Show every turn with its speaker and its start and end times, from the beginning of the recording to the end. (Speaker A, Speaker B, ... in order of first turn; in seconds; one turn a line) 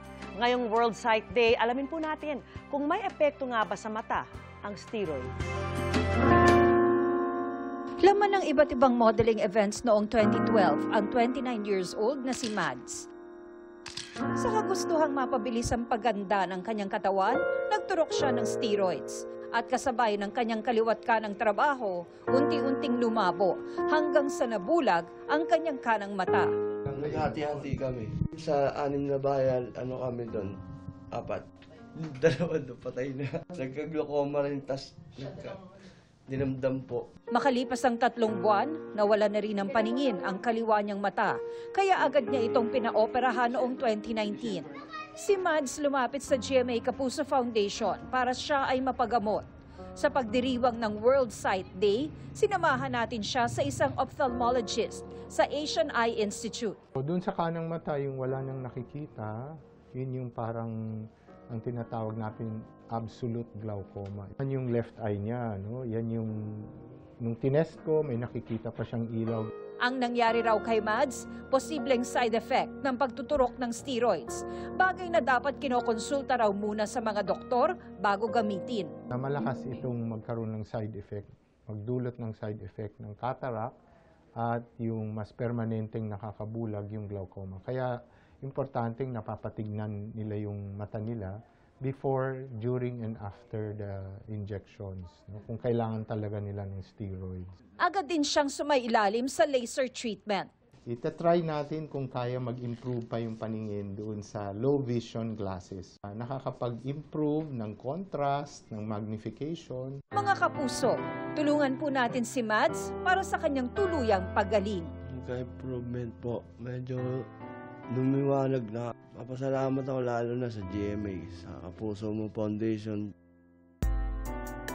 Speaker A: 0.4-5.3
Speaker B: 8.0-13.1
Speaker B: 14.3-26.5
Speaker C: 26.9-30.6
Speaker C: 31.1-35.6
Speaker C: 36.3-37.1
Speaker B: 37.3-49.5
Speaker B: 50.0-56.8
Speaker D: 57.0-60.8
Speaker D: 61.5-69.5
Speaker B: 69.8-78.9
Speaker D: 79.1-83.7
Speaker D: 84.4-97.5
Speaker B: 97.8-100.5
Speaker D: 100.9-110.0
Speaker B: 110.1-114.9
Speaker C: 115.2-117.3
Speaker C: 117.9-123.1